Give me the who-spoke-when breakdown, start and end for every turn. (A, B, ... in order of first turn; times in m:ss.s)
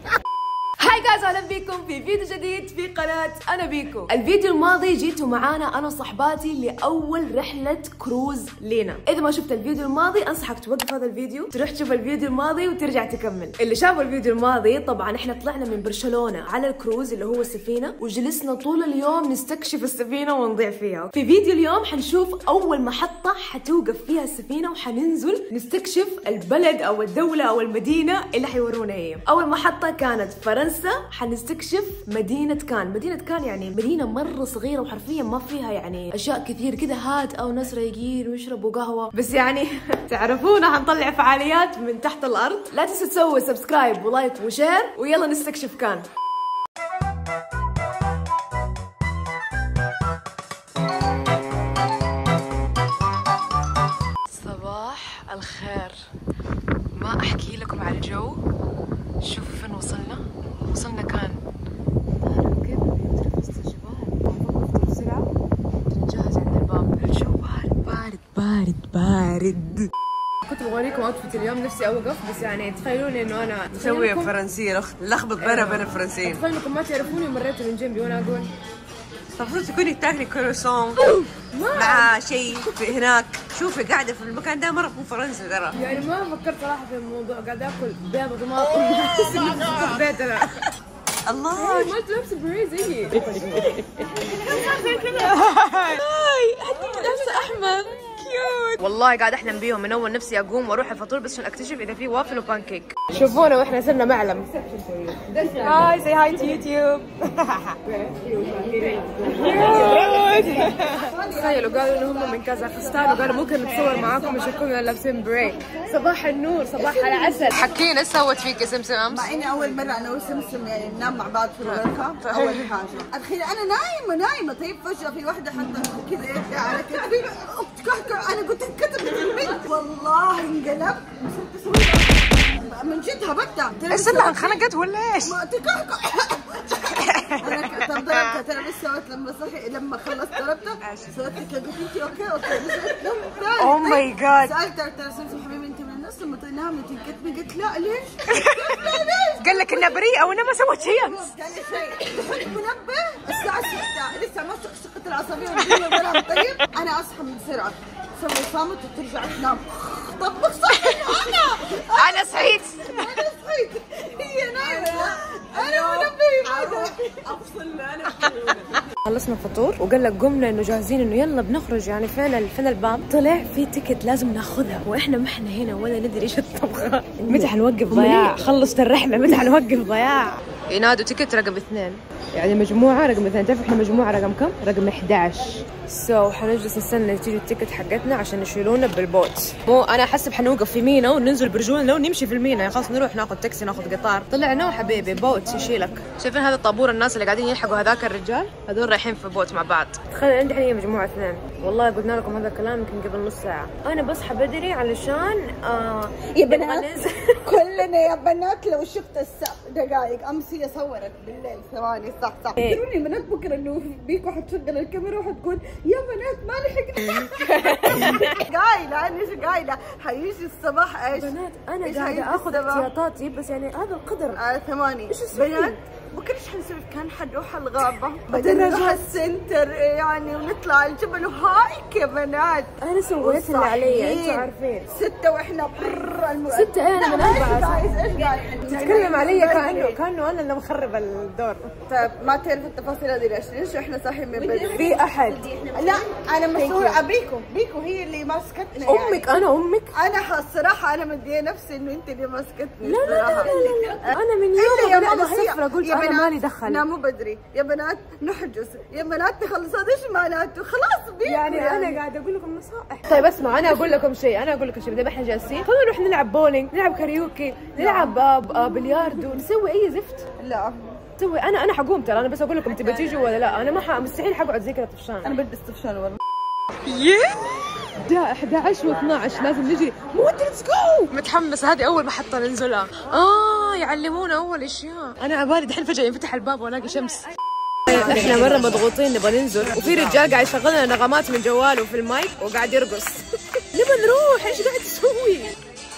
0:00.8-0:46.1 A
0:54.3-0:56.0 A
0:56.9-0:58.4 A
0:59.2-1:01.4 A
1:02.2-1:05.3 A
1:05.9-1:09.9 A
1:10.5-1:14.3 A
1:13.7-1:16.4 B
1:15.4-1:18.5 A
1:19.4-1:21.1 B
1:21.0-1:22.1 A
1:21.7-1:25.8 B
1:25.7-1:30.7 A
1:28.8-1:29.9 B
1:31.2-1:32.0 B
1:31.5-1:33.7 A
1:33.1-1:33.8 B
1:34.5-1:44.5 A
1:36.7-1:37.8 B
1:44.6-1:45.7 B
1:45.6-1:47.8 A
1:47.8-1:50.5 B
1:49.3-1:59.3 A
1:49.4-1:54.6 C
1:56.8-1:57.8 C
1:59.1-2:14.7 C
2:01.6-2:02.7 A
2:13.9-2:15.4 A
2:15.2-2:48.5 C
2:16.8-2:18.4 A
2:20.8-2:21.2 A
2:23.6-2:24.5 A
2:28.3-2:31.3 A
2:35.6-2:36.6 A
2:40.8-2:41.4 A
2:41.9-2:43.2 A
2:44.6-2:46.9 B
2:49.0-3:27.4 A
2:57.2-2:58.4 B
3:14.7-3:15.9 C
3:26.4-3:27.1 B
3:27.4-3:42.9 C
3:32.6-3:32.8 A
3:37.5-3:38.2 B
3:41.1-3:44.4 A
3:44.3-4:00.0 C
3:45.1-3:45.8 A
3:48.2-3:49.1 A
3:52.8-3:54.9 A
3:56.5-3:57.9 A
3:58.0-3:58.9 B
3:58.6-4:01.7 A
4:01.9-4:04.8 C
4:04.3-4:07.0 B
4:04.7-4:05.4 A
4:05.7-4:09.4 C
4:08.8-4:09.9 A
4:09.9-4:22.0 C
4:12.8-4:16.8 A
4:12.9-4:14.0 B
4:21.2-4:30.2 A
4:23.1-4:23.7 C
4:27.8-4:28.2 C
4:30.4-4:31.0 C
4:31.2-4:35.4 A
4:35.2-4:36.2 C
4:36.8-4:47.3 A
4:47.9-4:55.5 A
4:47.9-4:48.8 B